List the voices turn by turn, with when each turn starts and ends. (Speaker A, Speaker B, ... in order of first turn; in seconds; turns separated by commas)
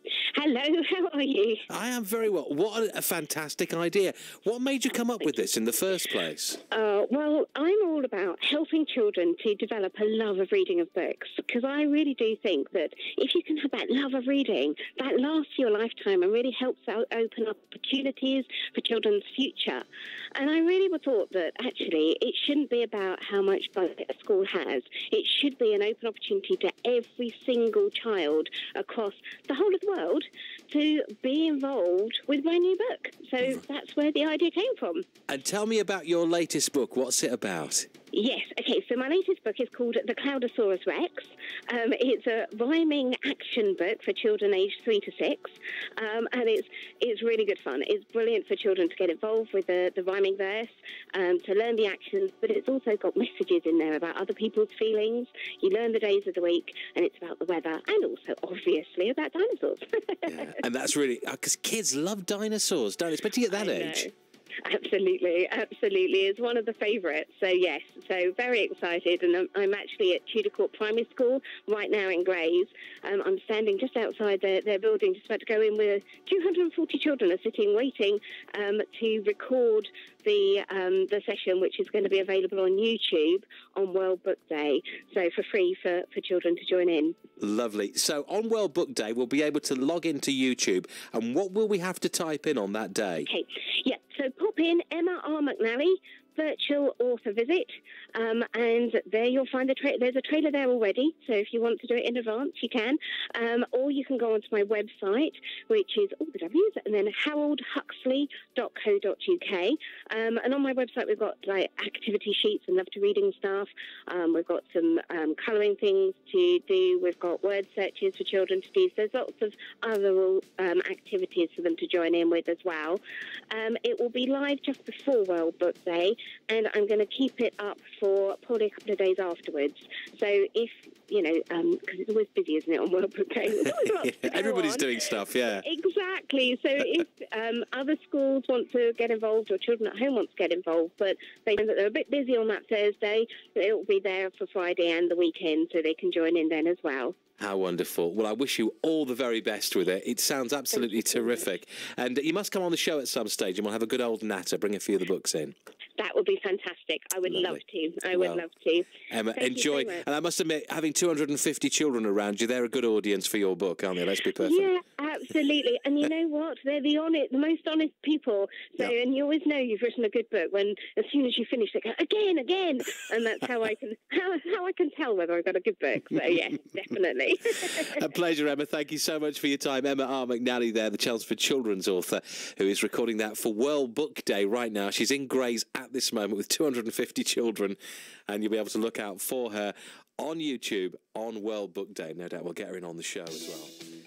Speaker A: 0.3-1.7, Speaker B: 1.7-6.6, Speaker A: 6.7-19.8, Speaker A: 20.3-35.0, Speaker B: 35.3-37.9, Speaker A: 38.1-60.5, Speaker B: 60.3-64.0, Speaker A: 63.5-64.1, Speaker A: 64.6-87.2, Speaker B: 87.4-93.3, Speaker A: 93.3-147.1, Speaker B: 133.8-135.6, Speaker B: 147.4-155.5, Speaker A: 150.7-151.5, Speaker A: 156.0-160.1, Speaker B: 158.1-158.4, Speaker B: 159.1-164.7, Speaker A: 164.4-178.0, Speaker B: 177.7-193.7